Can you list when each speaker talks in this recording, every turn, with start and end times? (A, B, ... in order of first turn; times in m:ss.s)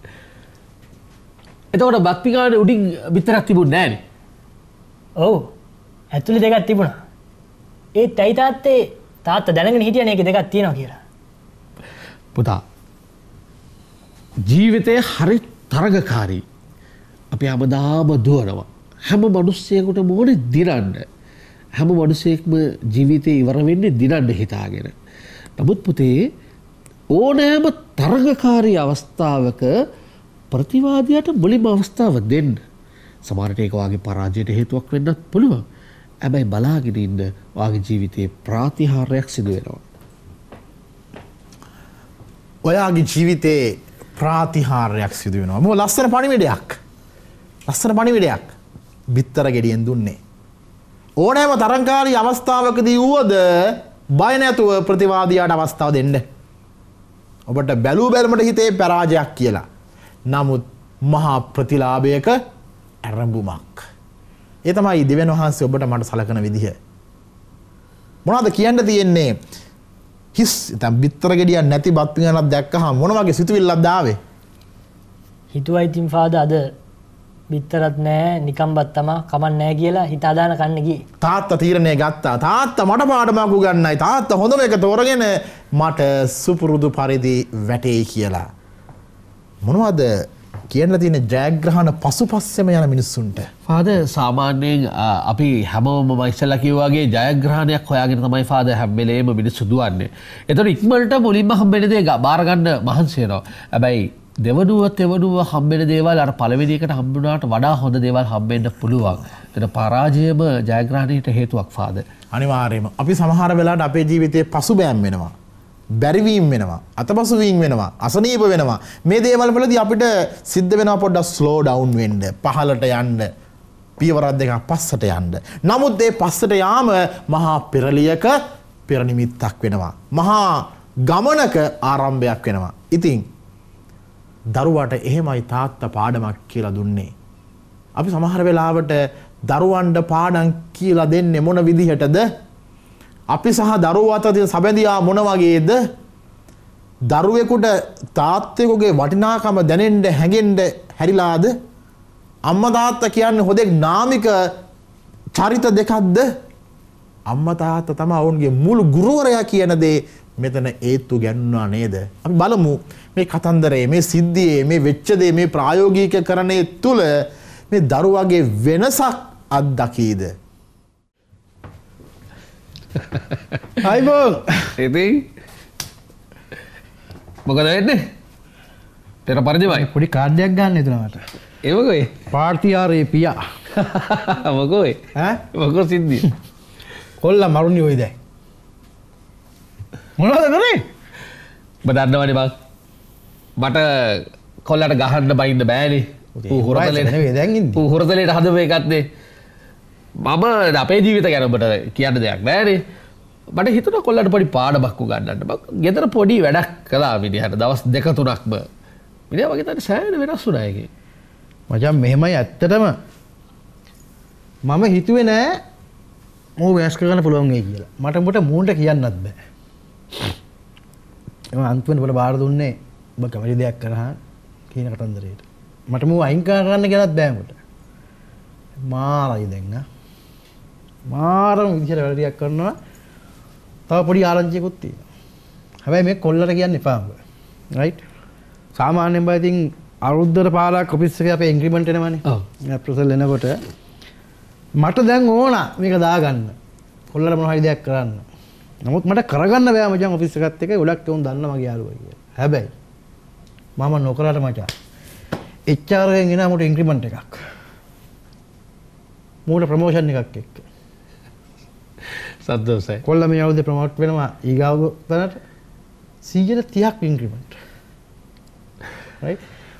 0:01.7-0:04.0 A
0:05.2-0:05.5 B
0:06.1-0:07.0 B
0:08.0-0:11.0 B
0:12.3-0:12.6 A
0:14.5-0:16.4 A
0:17.3-0:21.0 A
0:21.8-0:24.9 A
0:25.6-0:26.1 A
0:27.1-0:29.7 A
0:30.5-0:32.6 A
0:33.2-0:35.6 A
0:36.2-0:39.8 A
0:42.6-0:46.8 C
0:47.7-0:48.5 C
0:49.1-0:50.2 C
0:51.2-0:56.2 C
0:57.5-0:59.6 C
1:00.3-1:02.4 C
1:03.0-1:03.8 C
1:04.6-1:06.8 C
1:08.2-1:09.4 C
1:10.3-1:14.2 C
1:15.5-1:16.7 B
1:17.5-1:21.0 B
1:21.2-1:28.4 C
1:29.6-1:30.1 C
1:30.7-1:33.5 C
1:33.7-1:52.0 A
1:52.3-1:55.3 C
1:56.0-2:03.3 C
2:04.0-2:08.4 C
2:08.9-2:13.2 C
2:14.5-2:17.1 C
2:17.9-2:22.2 C
2:23.3-2:25.8 C
2:27.1-2:31.5 C
2:32.4-2:34.5 C
2:35.3-2:36.3 C
2:37.3-2:47.1 C
2:47.7-2:50.3 C
2:53.8-2:54.7 D
2:54.8-2:55.2 A
2:57.4-2:58.0 A
2:59.2-2:59.9 A
2:59.7-3:01.2 D
3:01.6-3:02.1 A
3:02.3-3:03.4 D
3:03.7-3:05.0 A
3:05.2-3:05.4 D
3:05.5-3:06.3 A
3:07.2-3:08.1 D
3:10.2-3:10.8 D
3:11.8-3:12.5 A
3:13.6-3:17.2 A
3:16.4-3:17.8 D
3:17.7-3:19.0 A
3:20.2-3:22.8 A
3:23.5-3:28.6 A
3:29.3-3:30.9 A
3:31.7-3:33.0 D
3:34.6-3:35.6 D
3:36.6-3:39.4 D
3:41.5-3:44.2 D
3:44.7-3:47.6 D
3:48.8-3:49.8 D
3:51.1-3:52.8 D
3:53.9-3:55.0 D
3:55.8-3:57.2 D
3:57.7-3:58.0 D
3:58.7-4:03.6 D
4:04.8-4:06.5 D
4:07.1-4:08.2 D
4:08.8-4:12.7 D
4:13.8-4:14.7 D
4:15.7-4:17.4 D
4:19.4-4:20.6 D
4:22.4-4:23.0 A
4:23.0-4:25.4 D
4:26.2-4:27.6 D